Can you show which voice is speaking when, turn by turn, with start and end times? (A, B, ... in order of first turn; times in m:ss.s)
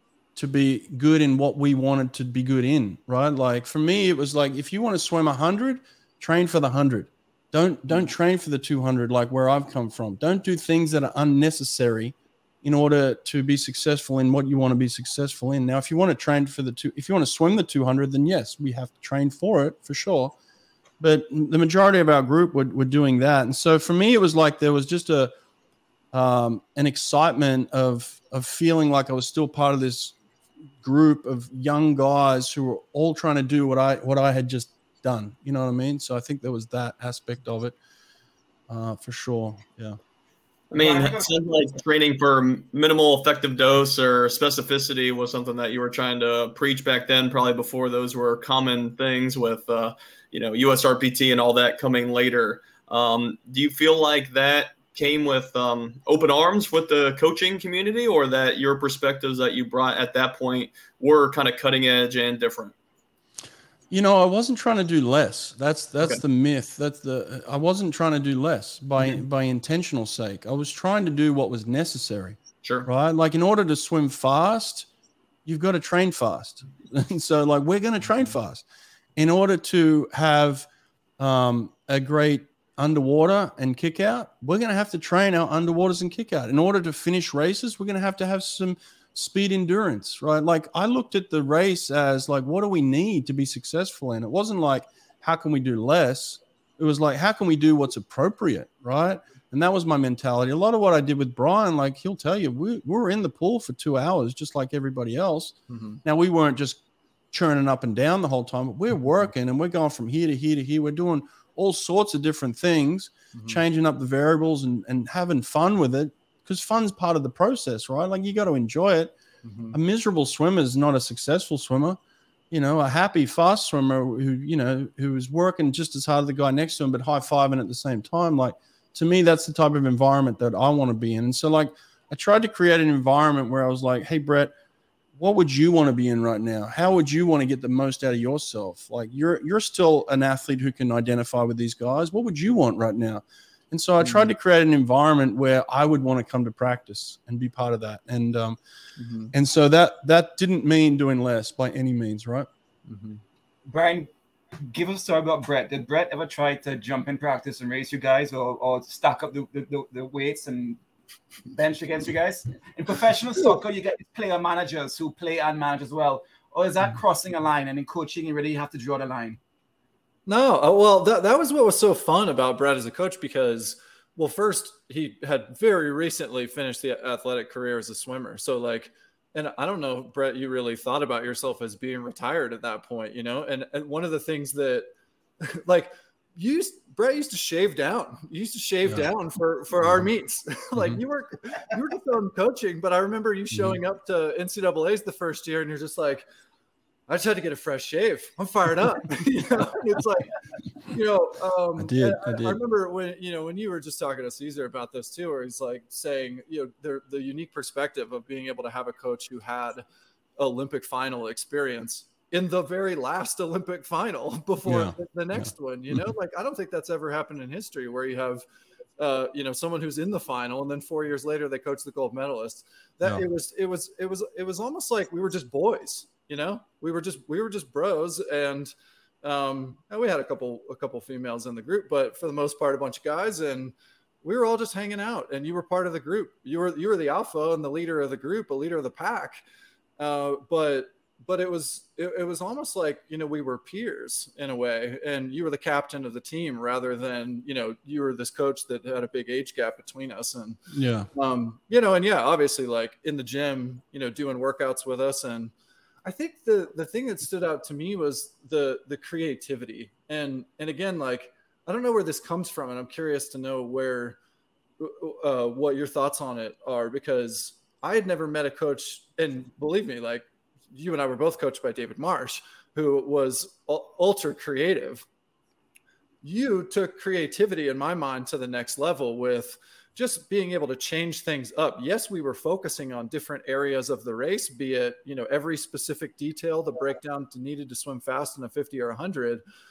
0:00.4-0:20.4 A
0:21.0-0:25.3 A
0:26.1-0:30.2 A
0:30.8-0:37.8 A
0:38.7-0:40.0 A
0:40.7-1:02.7 B
0:40.8-0:41.4 C
1:03.9-1:14.9 A
1:12.6-1:12.9 B
1:15.5-1:18.6 A
1:19.2-1:20.7 A
1:21.2-1:59.1 A
1:45.7-1:46.0 D
1:53.3-1:53.6 D
1:59.4-1:59.8 D
1:59.7-2:02.0 A
2:02.5-2:14.5 A
2:15.2-2:28.6 A
2:24.0-2:24.3 D
2:29.0-2:29.3 D
2:29.3-2:32.5 A
2:32.9-2:33.2 D
2:33.7-2:40.8 C
2:41.5-2:49.4 C
2:50.3-3:04.9 D
3:05.4-3:16.2 D
3:13.5-3:13.8 A
3:17.1-3:20.3 D
3:20.9-3:29.8 D
3:21.8-3:22.6 A
3:30.4-3:38.4 D
3:34.7-3:36.0 A
3:39.0-3:48.7 D
3:49.2-3:59.4 D
4:00.0-4:10.6 D
4:10.7-4:11.1 A
4:11.1-4:15.5 D
4:16.0-4:24.2 D
4:24.8-4:35.0 D
4:36.2-4:49.4 D